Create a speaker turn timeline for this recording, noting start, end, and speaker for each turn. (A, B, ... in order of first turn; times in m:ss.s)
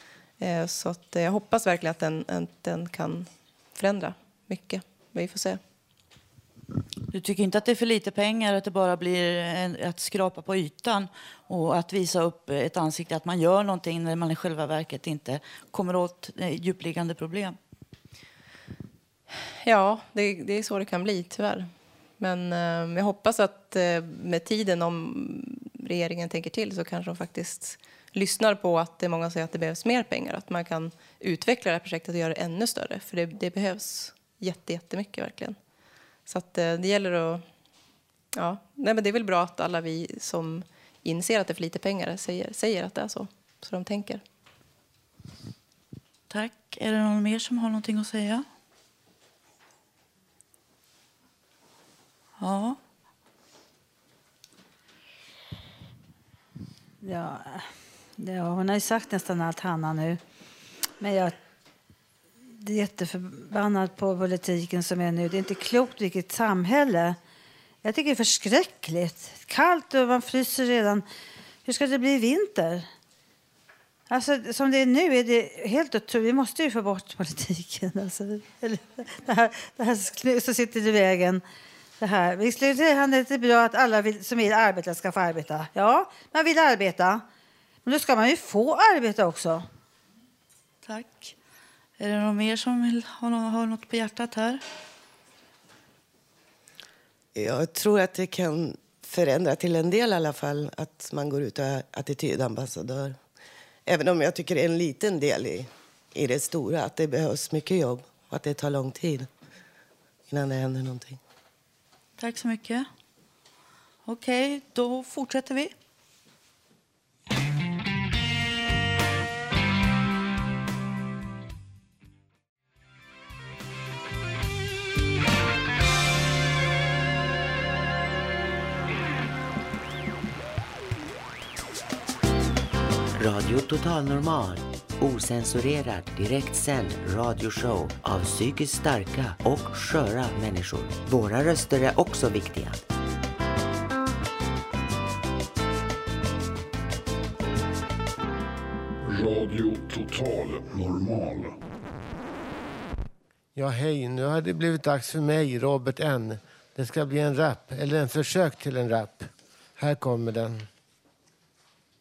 0:00.4-0:05.6 A
0:07.1-0:17.6 B
0:19.6-0:35.6 A
0:36.3-0:37.5 A
0:38.3-0:44.2 A
0:46.3-0:48.5 B
0:52.4-0:52.8 B
0:57.0-1:00.2 C
1:01.0-1:01.4 C
1:02.6-1:07.2 C
1:07.8-1:11.1 C
1:11.6-1:12.9 C
1:14.1-1:21.4 C
1:22.0-1:27.3 C
1:27.8-1:29.7 C
1:30.8-1:31.4 B
1:32.0-1:34.6 B
1:37.4-1:43.2 D
1:43.9-1:49.3 D
1:50.3-1:51.2 D
1:52.2-1:52.9 B
1:54.0-1:55.7 B
2:13.2-2:22.8 E
2:29.1-2:31.6 F
2:33.6-2:40.7 G